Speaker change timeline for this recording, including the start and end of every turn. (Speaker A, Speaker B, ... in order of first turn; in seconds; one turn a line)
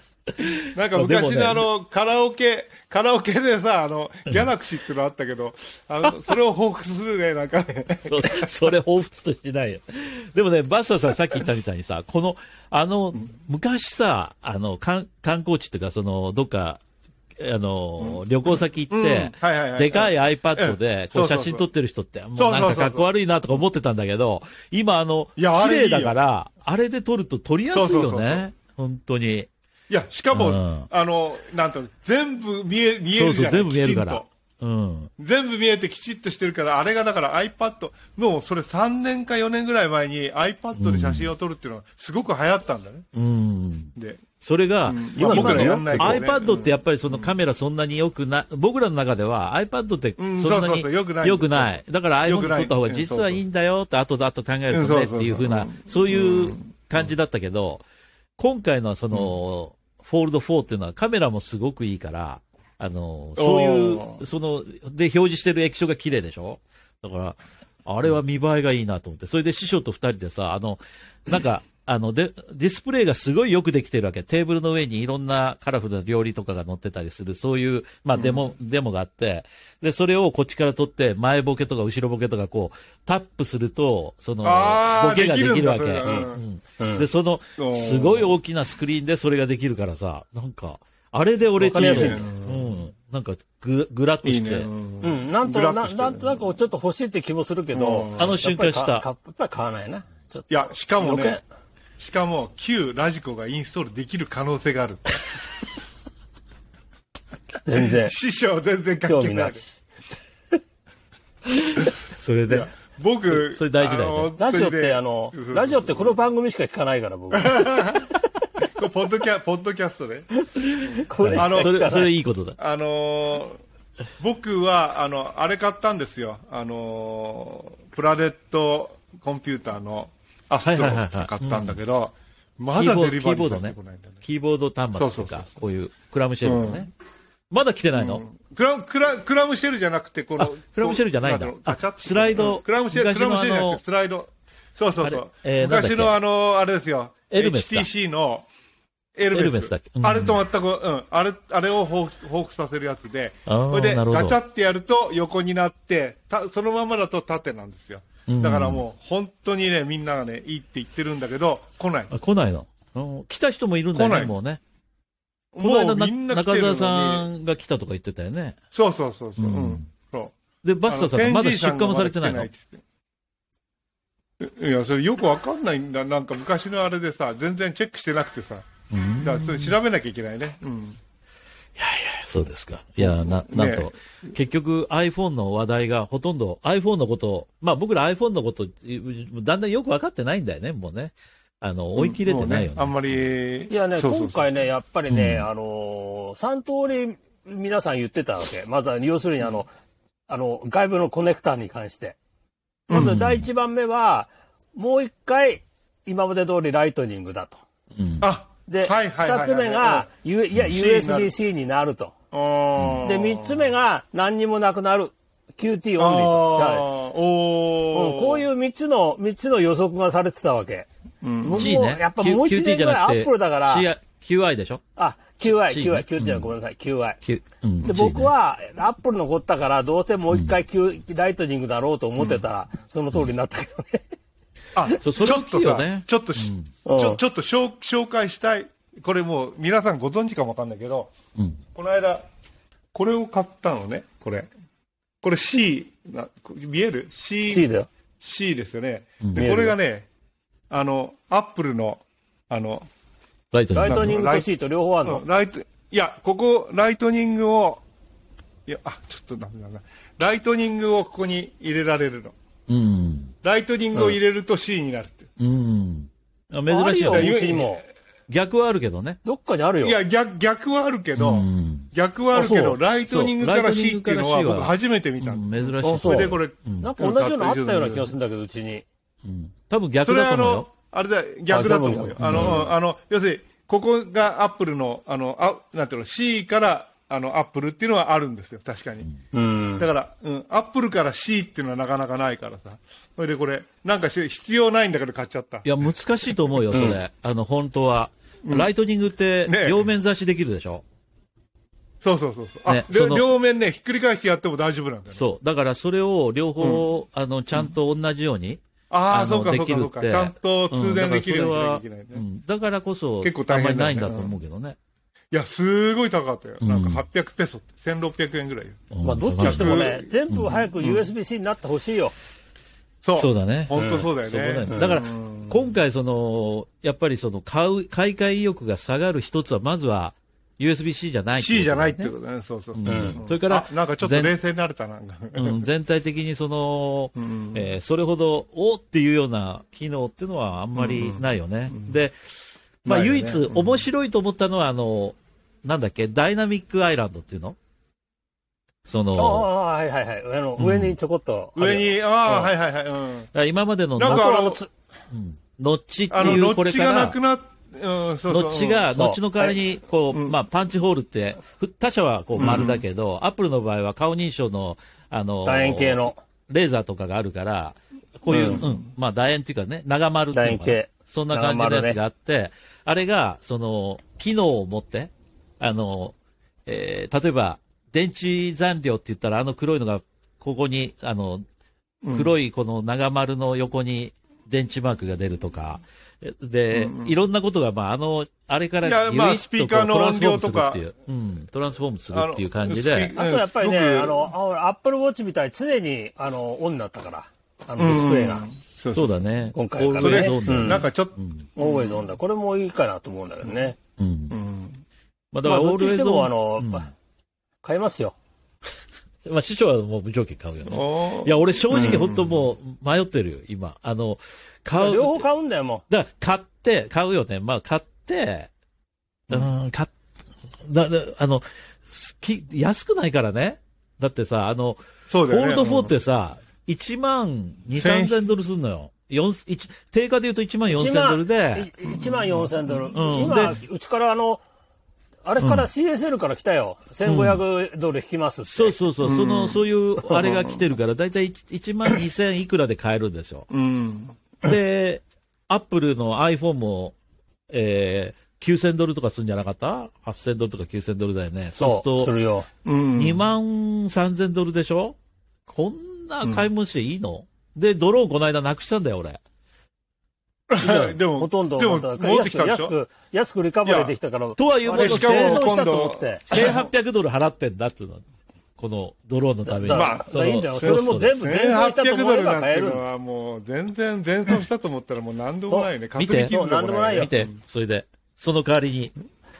Speaker A: 0.4-1.7
Speaker B: 0.7-8.5
Speaker A: 8.0-16.8
Speaker A: 17.4-29.5
Speaker B: 18.9-21.6
Speaker B: 22.4-23.1
Speaker B: 25.4-26.1
Speaker B: 27.7-28.4
Speaker B: 29.9-34.2
Speaker A: 30.3-30.9
Speaker A: 33.1-35.1
Speaker B: 35.2-43.1
Speaker A: 40.8-41.3
Speaker A: 43.1-57.8
Speaker B: 44.0-44.2
Speaker B: 44.9-47.3
Speaker C: 45.1-46.2
Speaker B: 50.2-53.4
Speaker B: 54.7-56.6
Speaker A: 58.4-94.7
Speaker B: 63.4-64.2
Speaker B: 78.1-78.5
Speaker B: 84.4-86.4
Speaker C: 86.0-87.0
Speaker B: 87.6-88.3
Speaker C: 91.6-92.2
Speaker B: 91.7-92.7
Speaker B: 94.2-96.4
Speaker C: 95.0-101.4
Speaker B: 97.7-98.4
Speaker A: 98.2-99.0
Speaker B: 100.5-101.4
Speaker B: 102.0-105.2
Speaker C: 107.6-108.2
Speaker B: 108.0-109.6
Speaker C: 109.1-109.8
Speaker A: 111.5-114.3
Speaker B: 112.5-116.2
Speaker C: 114.4-118.0
Speaker B: 117.3-120.3
Speaker A: 120.7-122.6
Speaker C: 120.8-122.1
Speaker B: 121.4-121.8
Speaker B: 122.6-123.6
Speaker B: 124.2-134.2
Speaker A: 130.6-131.8
Speaker A: 132.8-136.9
Speaker B: 134.9-135.6
Speaker B: 136.4-136.9
Speaker A: 137.5-138.2
Speaker B: 137.9-148.5
Speaker A: 140.4-143.8
Speaker A: 145.0-146.2
Speaker A: 147.3-147.9
Speaker B: 149.2-162.1
Speaker A: 149.3-150.4
Speaker A: 153.5-154.4
Speaker A: 158.3-158.8
Speaker A: 162.1-164.6
Speaker B: 163.9-164.3
Speaker B: 165.5-167.3
Speaker A: 165.6-168.6
Speaker B: 168.7-170.3
Speaker A: 169.4-169.8
Speaker A: 170.6-172.5
Speaker B: 170.9-172.8
Speaker B: 174.4-181.0
Speaker A: 178.9-179.8
Speaker A: 181.8-193.2
Speaker B: 183.0-183.9
Speaker B: 191.9-194.5
Speaker C: 193.7-199.7
Speaker A: 195.1-195.5
Speaker C: 200.3-202.2
Speaker B: 202.9-203.2
Speaker C: 202.9-207.6
Speaker A: 202.9-203.4
Speaker A: 207.9-208.3
Speaker B: 208.2-210.1
Speaker C: 208.7-212.1
Speaker B: 210.6-211.3
Speaker B: 212.3-213.7
Speaker A: 212.8-213.0
Speaker C: 213.0-216.9
Speaker B: 216.0-218.4
Speaker C: 217.9-220.9
Speaker B: 221.2-221.8
Speaker C: 221.4-223.9
Speaker A: 221.5-224.8
Speaker C: 224.9-227.2
Speaker A: 225.4-226.5
Speaker A: 227.2-228.3
Speaker C: 227.8-234.1
Speaker B: 234.7-241.1
Speaker A: 235.0-236.7
Speaker C: 236.8-237.2
Speaker B: 241.7-242.3
Speaker B: 242.9-244.5
Speaker B: 245.2-247.7
Speaker C: 247.5-247.9
Speaker B: 248.2-250.1
Speaker A: 249.2-249.5
Speaker C: 249.3-249.8
Speaker B: 250.7-252.9
Speaker A: 253.5-254.2
Speaker C: 253.7-255.2
Speaker B: 253.8-254.5
Speaker B: 255.0-257.8
Speaker B: 258.6-262.3
Speaker A: 262.7-263.3
Speaker B: 263.4-265.3
Speaker A: 265.4-267.4
Speaker C: 266.7-267.8
Speaker B: 267.1-267.8
Speaker A: 268.3-269.2
Speaker C: 269.2-270.0
Speaker B: 269.8-278.1
Speaker A: 271.2-276.9
Speaker C: 275.8-278.8
Speaker A: 279.2-280.7
Speaker B: 280.0-289.1
Speaker C: 281.5-282.7
Speaker A: 282.2-282.6
Speaker C: 289.3-289.9
Speaker B: 289.8-295.6
Speaker A: 295.6-300.8
Speaker C: 296.7-297.0
Speaker B: 298.4-298.7
Speaker B: 299.4-299.9
Speaker B: 302.0-305.3
Speaker A: 302.7-303.2
Speaker A: 305.1-314.8
Speaker B: 306.6-306.9
Speaker B: 308.9-312.2
Speaker B: 313.2-314.4
Speaker B: 315.3-318.8
Speaker A: 316.6-317.0
Speaker A: 318.9-320.7
Speaker C: 319.0-322.1
Speaker B: 319.4-320.1
Speaker B: 323.0-325.7
Speaker A: 323.2-332.1
Speaker C: 323.8-324.0
Speaker C: 324.7-324.9
Speaker B: 331.4-335.6
Speaker A: 332.7-334.3
Speaker C: 332.9-333.2
Speaker A: 335.4-342.3
Speaker B: 337.1-337.7
Speaker B: 340.7-342.0
Speaker A: 342.8-347.6
Speaker B: 342.8-343.8
Speaker A: 348.9-349.5
Speaker C: 349.1-352.5
Speaker A: 350.6-350.9
Speaker B: 351.6-353.3
Speaker A: 353.3-354.4
Speaker B: 354.0-354.6
Speaker C: 354.0-354.7
Speaker A: 355.1-357.2
Speaker B: 356.1-358.9
Speaker A: 358.3-376.1
Speaker C: 358.9-359.6
Speaker C: 362.4-362.7
Speaker B: 362.4-362.8
Speaker C: 365.4-366.2
Speaker C: 368.3-368.6
Speaker C: 370.3-372.0
Speaker A: 376.6-381.4
Speaker B: 382.0-382.3
Speaker A: 382.1-393.1
Speaker B: 386.7-387.1
Speaker B: 388.8-390.8
Speaker B: 392.1-394.3
Speaker C: 393.1-398.4
Speaker B: 397.8-399.2
Speaker A: 398.9-401.5
Speaker C: 399.5-400.8
Speaker B: 400.0-402.1
Speaker C: 401.6-403.8
Speaker A: 404.0-404.4
Speaker B: 404.3-404.8
Speaker A: 405.3-406.9
Speaker C: 405.4-406.9
Speaker C: 407.6-408.1
Speaker A: 409.2-415.2
Speaker B: 410.6-412.4
Speaker C: 411.7-412.0
Speaker C: 414.7-415.8
Speaker A: 415.9-418.5
Speaker A: 419.3-419.9
Speaker A: 420.6-431.7
Speaker B: 425.1-425.9
Speaker B: 427.7-428.2
Speaker C: 430.7-434.4
Speaker B: 432.0-432.9
Speaker A: 432.9-433.6
Speaker C: 435.2-438.8
Speaker A: 435.4-435.7
Speaker A: 437.0-437.4
Speaker A: 438.5-443.5
Speaker B: 439.0-440.6
Speaker B: 443.5-444.2
Speaker A: 444.4-446.9
Speaker A: 447.5-452.1
Speaker C: 451.6-452.5
Speaker B: 452.6-453.2
Speaker A: 452.9-454.9
Speaker A: 455.5-459.2
Speaker B: 456.2-456.5
Speaker B: 460.5-462.7
Speaker C: 460.6-466.3
Speaker B: 463.6-463.9
Speaker A: 464.4-468.0
Speaker B: 464.7-466.7
Speaker A: 468.6-471.1
Speaker C: 469.4-472.8
Speaker B: 469.7-477.3
Speaker C: 475.5-477.1
Speaker A: 475.9-476.3
Speaker A: 476.9-478.9